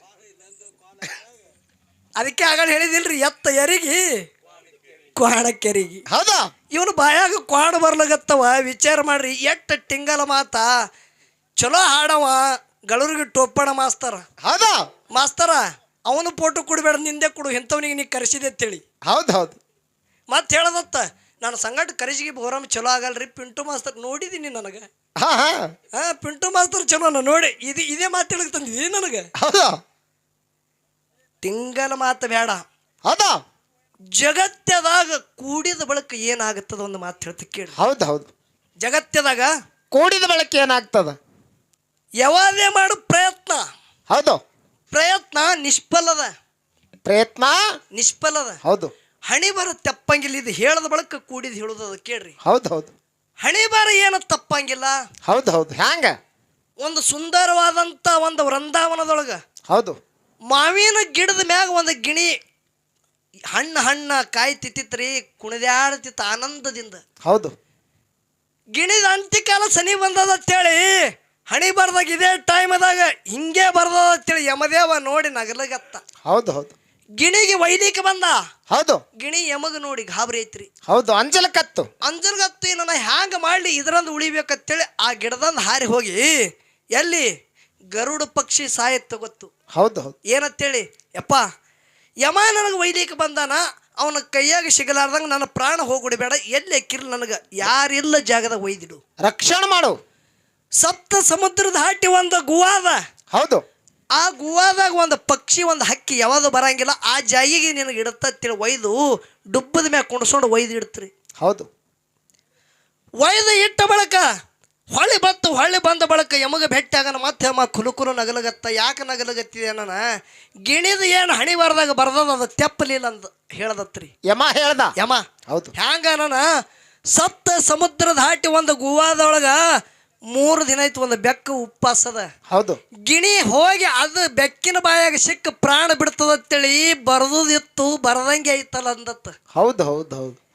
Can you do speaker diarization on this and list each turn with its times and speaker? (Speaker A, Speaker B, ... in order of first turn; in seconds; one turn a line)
Speaker A: 2.2-4.1
Speaker A: 5.2-6.0
Speaker B: 6.1-6.5
Speaker A: 6.7-10.8
Speaker A: 11.6-14.2
Speaker B: 14.4-14.8
Speaker A: 15.1-18.8
Speaker B: 19.1-19.6
Speaker A: 20.3-24.9
Speaker B: 25.2-25.7
Speaker A: 25.9-29.3
Speaker B: 29.4-29.8
Speaker A: 31.4-32.6
Speaker B: 33.0-33.4
Speaker A: 34.1-37.7
Speaker B: 37.8-38.3
Speaker A: 38.8-39.5
Speaker B: 39.9-41.2
Speaker A: 42.2-43.6
Speaker B: 44.1-44.4
Speaker A: 44.9-46.3
Speaker B: 47.0-47.8
Speaker A: 47.9-48.6
Speaker B: 48.6-48.9
Speaker A: 49.3-52.4
Speaker B: 52.4-52.9
Speaker A: 53.4-55.0
Speaker B: 55.2-56.2
Speaker A: 56.8-59.4
Speaker B: 59.7-60.0
Speaker A: 60.5-62.3
Speaker A: 63.5-67.0
Speaker B: 67.2-67.5
Speaker A: 68.7-76.0
Speaker B: 76.2-76.7
Speaker A: 77.2-78.4
Speaker B: 78.7-79.0
Speaker A: 79.2-80.7
Speaker B: 80.9-81.9
Speaker A: 82.0-87.3
Speaker A: 87.9-89.5
Speaker B: 89.7-90.1
Speaker A: 90.3-91.4
Speaker A: 92.2-99.0
Speaker B: 99.2-100.0
Speaker A: 100.8-103.0
Speaker B: 103.3-103.6
Speaker A: 104.2-109.0
Speaker A: 109.5-111.1
Speaker B: 111.4-111.7
Speaker A: 113.2-114.2
Speaker A: 114.9-120.0
Speaker A: 120.7-124.1
Speaker B: 124.2-124.9
Speaker A: 125.0-125.2
Speaker B: 125.5-125.7
Speaker A: 125.8-126.5
Speaker A: 127.1-129.6
Speaker A: 130.3-132.3
Speaker B: 132.5-132.8
Speaker A: 133.1-139.3
Speaker B: 139.5-140.4